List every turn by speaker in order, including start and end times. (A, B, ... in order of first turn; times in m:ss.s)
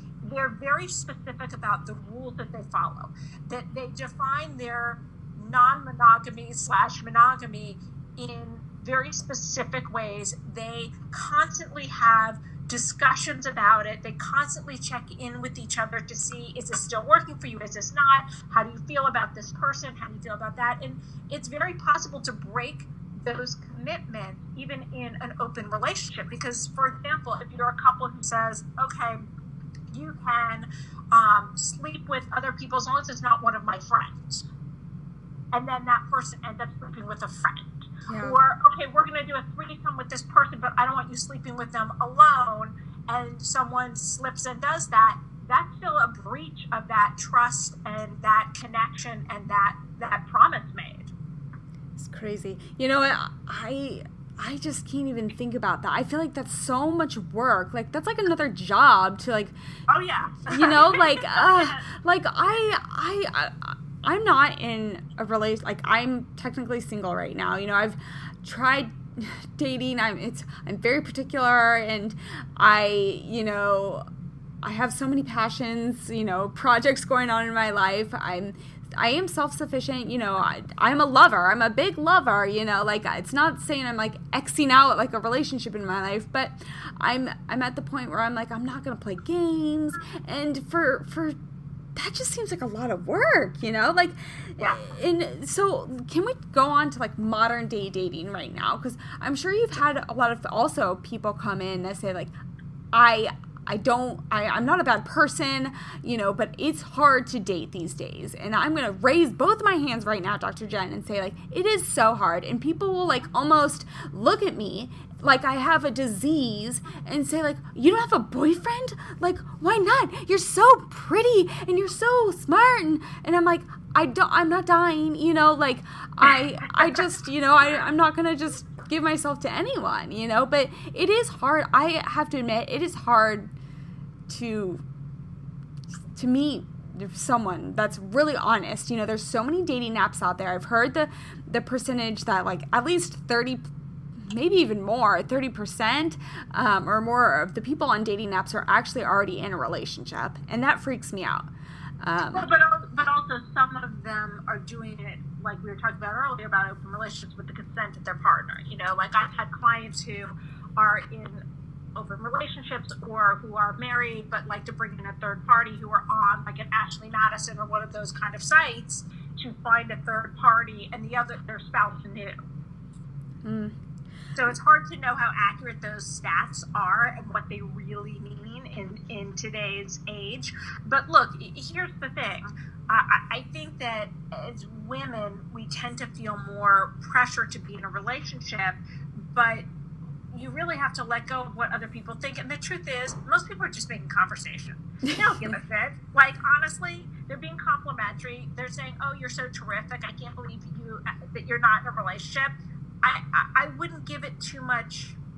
0:00.2-0:29.2 A
0:29.9-0:34.4 A
0:35.5-0:51.1 A
0:38.1-0:38.4 B
0:52.0-0:59.5 B
0:59.9-1:01.8 A
1:00.5-1:14.0 B
1:14.6-1:31.4 B
1:31.9-1:42.3 B
1:42.9-2:13.5 B
2:14.3-2:14.8 B
2:16.1-2:23.7 B
2:24.2-2:31.5 B
2:32.0-2:32.5 B
2:32.3-2:41.4 A
2:41.9-2:52.4 A
2:53.4-2:53.8 B
2:54.3-3:09.6 A
3:10.3-3:25.2 A
3:15.0-3:15.5 B